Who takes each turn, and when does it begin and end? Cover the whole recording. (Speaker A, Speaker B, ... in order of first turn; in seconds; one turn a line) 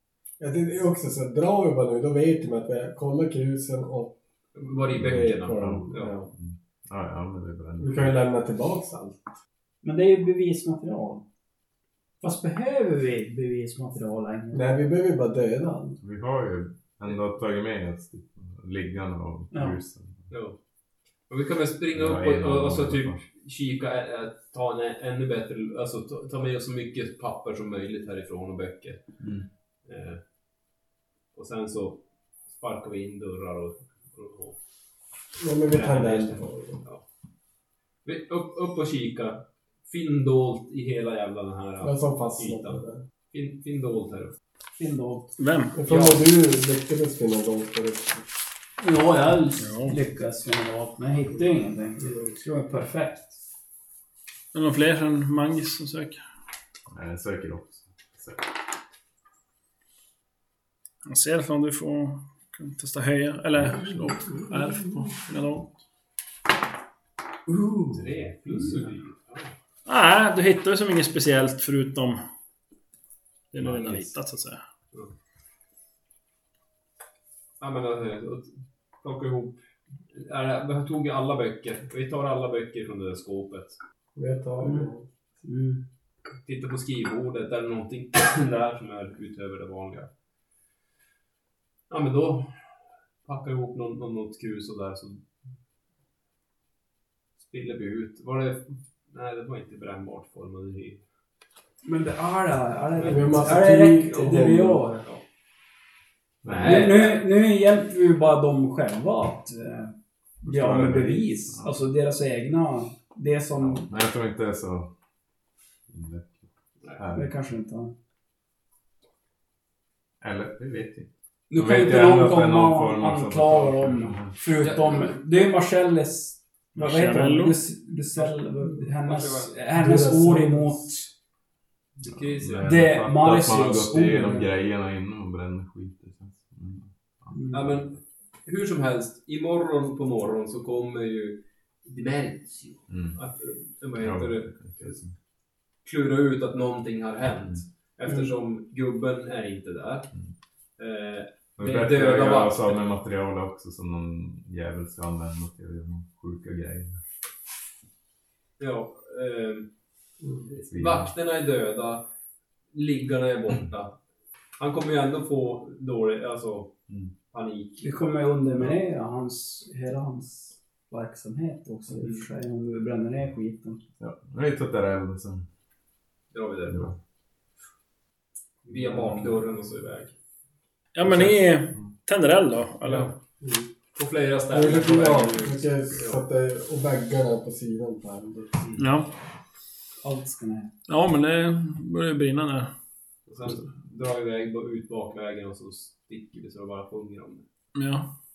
Speaker A: 0.4-4.2
Speaker B: 4.6-6.1
Speaker C: 4.9-8.2
Speaker A: 5.0-6.3
Speaker A: 7.8-9.2
Speaker D: 9.8-11.2
Speaker D: 12.2-14.7
Speaker A: 14.5-16.0
Speaker C: 16.0-20.3
Speaker D: 19.5-19.8
Speaker B: 20.3-20.6
Speaker B: 21.3-29.0
Speaker C: 21.9-23.2
Speaker C: 29.2-29.5
Speaker B: 29.9-30.2
Speaker B: 31.3-34.6
Speaker A: 35.4-36.8
Speaker B: 35.7-37.0
Speaker B: 38.0-42.8
Speaker A: 41.8-43.0
Speaker B: 43.3-44.4
Speaker D: 44.8-45.3
Speaker E: 45.4-45.8
Speaker A: 45.8-48.2
Speaker B: 45.9-46.3
Speaker D: 48.8-53.4
Speaker E: 49.6-50.0
Speaker A: 52.0-52.3
Speaker E: 54.5-56.2
Speaker C: 56.9-58.4
Speaker E: 61.1-65.8
Speaker B: 67.9-69.5
Speaker E: 69.9-72.2
Speaker E: 73.5-74.6
Speaker B: 73.7-74.1
Speaker B: 77.6-83.8
Speaker A: 84.2-85.0
Speaker D: 84.6-84.9
Speaker D: 85.4-85.8
Speaker B: 86.5-90.1
Speaker B: 91.9-92.5
Speaker B: 93.2-95.2
Speaker B: 97.4-101.0
Speaker D: 101.8-105.0
Speaker B: 103.0-103.7
Speaker A: 103.0-104.9
Speaker C: 106.4-106.9
Speaker B: 106.4-107.2
Speaker D: 106.6-113.9
Speaker C: 110.5-111.7
Speaker C: 113.7-114.9
Speaker C: 115.9-116.4
Speaker C: 117.0-117.3
Speaker D: 117.1-117.9
Speaker C: 120.2-124.3
Speaker D: 121.5-131.1
Speaker B: 124.6-125.2
Speaker E: 126.8-127.6
Speaker B: 129.0-129.6
Speaker A: 129.8-130.8
Speaker B: 132.0-132.8
Speaker C: 132.1-137.3
Speaker D: 132.6-134.5
Speaker D: 137.3-137.7
Speaker B: 137.5-145.0
Speaker C: 142.9-143.2
Speaker C: 144.0-145.1
Speaker B: 145.8-150.1
Speaker B: 150.8-152.8
Speaker C: 151.6-157.0
Speaker B: 158.6-159.7
Speaker B: 160.5-162.1
Speaker C: 160.7-161.1
Speaker B: 162.7-164.0
Speaker B: 164.6-166.7
Speaker B: 167.3-167.9
Speaker D: 167.8-173.8
Speaker C: 174.0-175.5
Speaker B: 176.3-176.9
Speaker C: 176.7-177.0
Speaker B: 178.7-180.1
Speaker E: 180.9-183.1
Speaker C: 181.1-181.9
Speaker B: 182.8-183.1
Speaker A: 183.4-183.7
Speaker B: 183.9-186.2
Speaker A: 184.5-188.6
Speaker E: 188.8-189.1
Speaker D: 190.0-190.7
Speaker E: 190.9-192.7
Speaker B: 193.3-197.4
Speaker E: 197.8-198.1